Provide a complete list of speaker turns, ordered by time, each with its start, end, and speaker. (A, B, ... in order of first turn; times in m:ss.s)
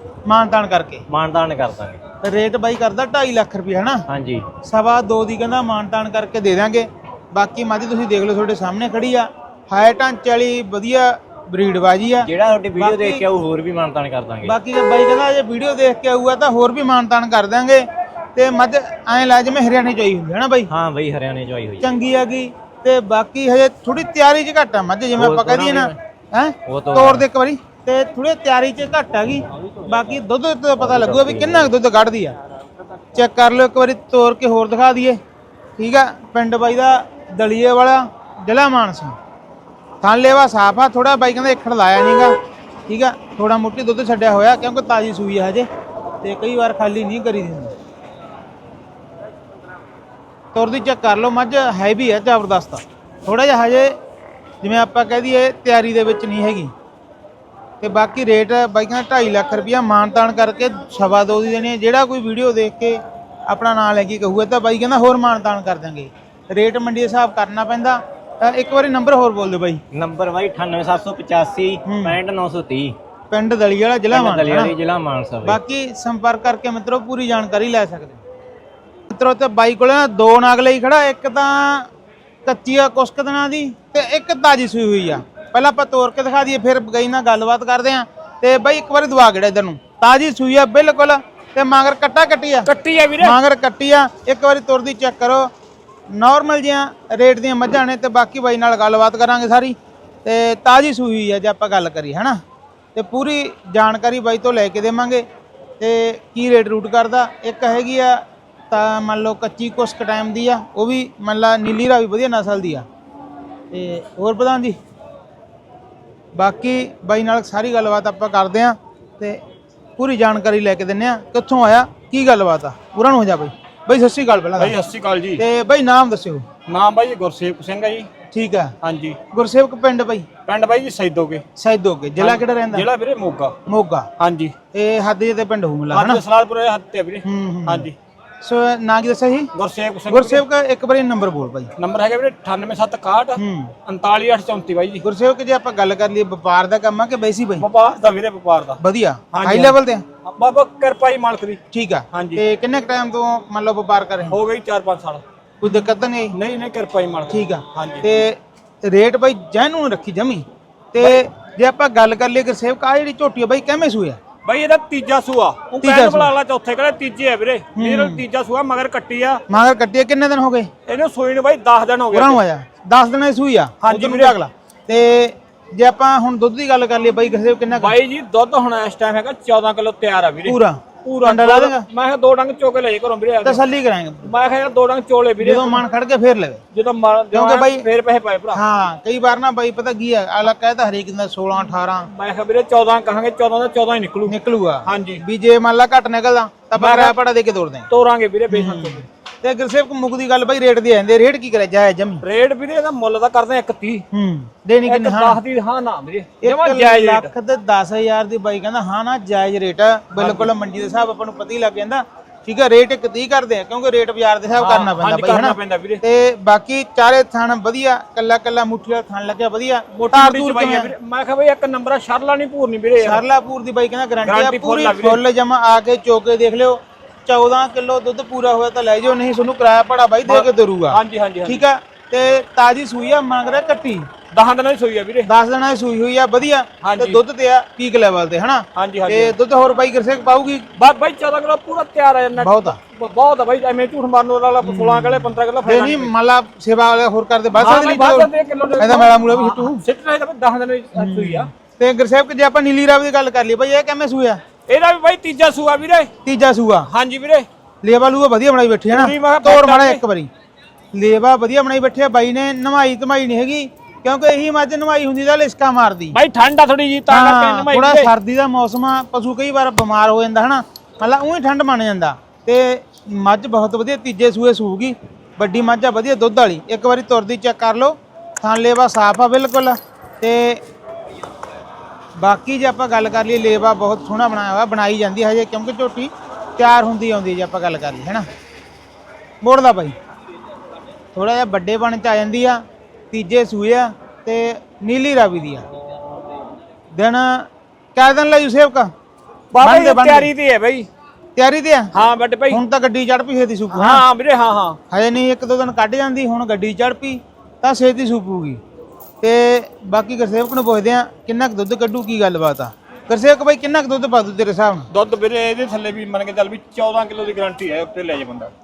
0:00.2-0:01.1 A
0:01.1-0:02.0 B
0:02.2-0:04.0 A
0:04.1-0:04.5 B
0:04.6-0:13.3 A
0:12.2-0:14.5 B
0:14.4-0:20.7 A
0:20.7-0:21.8 B
0:21.8-0:32.4 A
0:25.2-0:26.0 B
0:26.7-0:27.2 B
0:30.9-0:31.6 B
0:33.2-0:35.2 A
0:35.8-0:39.2 A
0:40.0-0:42.4 A
0:42.9-0:45.7 A
0:46.2-0:47.7 A
0:50.5-0:54.0 A
0:54.6-0:56.7 A
0:57.8-1:09.8 A
1:09.9-1:13.0 B
1:11.8-1:12.2 A
1:13.3-1:14.8 A
1:14.1-1:15.6 B
1:15.4-1:18.2 A
1:19.1-1:21.9 A
1:22.5-1:35.5 A
1:32.7-1:33.4 C
1:36.1-1:42.4 A
1:43.0-1:45.3 A
1:45.8-1:52.9 A
1:53.7-1:54.8 A
1:56.3-1:59.4 A
2:00.0-2:04.8 A
2:04.6-2:05.4 C
2:05.4-2:06.4 A
2:06.7-2:08.1 C
2:08.3-2:08.7 A
2:08.8-2:09.2 C
2:09.3-2:10.3 A
2:10.5-2:11.4 C
2:11.6-2:12.9 A
2:12.2-2:13.6 C
2:13.7-2:14.1 A
2:14.2-2:14.5 C
2:14.7-2:16.2 A
2:15.9-2:18.0 C
2:17.2-2:17.9 A
2:18.4-2:19.5 A
2:19.5-2:20.4 C
2:20.1-2:21.7 A
2:21.8-2:25.0 C
2:23.4-2:23.7 A
2:25.0-2:27.6 A
2:27.6-2:28.8 C
2:28.8-2:30.0 A
2:29.3-2:31.6 C
2:31.7-2:34.4 A
2:32.1-2:32.4 C
2:34.3-2:35.2 C
2:35.6-2:36.4 A
2:36.3-2:38.0 C
2:37.3-2:44.2 A
2:44.4-2:49.4 C
2:45.8-2:46.3 A
2:47.8-2:48.2 A
2:49.5-2:50.7 A
2:50.9-2:52.4 C
2:52.1-2:58.0 A
2:53.8-2:54.4 C
2:57.8-3:03.6 C
3:00.5-3:01.9 A
3:03.4-3:04.3 A
3:04.2-3:05.8 C
3:05.4-3:06.6 A
3:06.7-3:08.6 C
3:07.3-3:07.9 A
3:08.5-3:12.1 A
3:12.1-3:15.2 C
3:14.3-3:17.9 A
3:16.8-3:17.2 C
3:17.9-3:19.0 C
3:18.5-3:22.2 A
3:22.2-3:24.0 C
3:24.1-3:25.4 A
3:24.8-3:27.3 C
3:26.4-3:40.9 A
3:30.1-3:30.5 C
3:34.6-3:36.0 C
3:40.0-3:43.2 C
3:43.0-3:54.1 A
3:44.2-3:45.2 C
3:50.3-3:51.6 C
3:54.3-3:55.3 C
3:55.2-4:00.7 A
3:56.8-3:57.2 C
3:58.8-3:59.3 C
4:00.8-4:06.1 C
4:02.4-4:02.8 A
4:04.6-4:09.8 A
4:07.6-4:11.5 C
4:11.0-4:14.4 A
4:14.7-4:16.1 C
4:16.2-4:16.9 A
4:16.9-4:17.5 C
4:17.8-4:20.3 A
4:18.9-4:20.0 C
4:20.9-4:26.2 A
4:26.1-4:28.1 C
4:27.1-4:40.6 A
4:42.2-4:48.3 A
4:49.4-4:50.0 A
4:51.1-4:55.6 A
4:56.9-4:58.9 A
4:59.5-5:00.9 C
4:59.6-5:00.3 A
5:01.4-5:01.9 A
5:01.9-5:02.6 C
5:02.5-5:04.0 A
5:03.7-5:04.8 C
5:04.9-5:08.6 A
5:09.2-5:14.9 A
5:14.9-5:18.5 C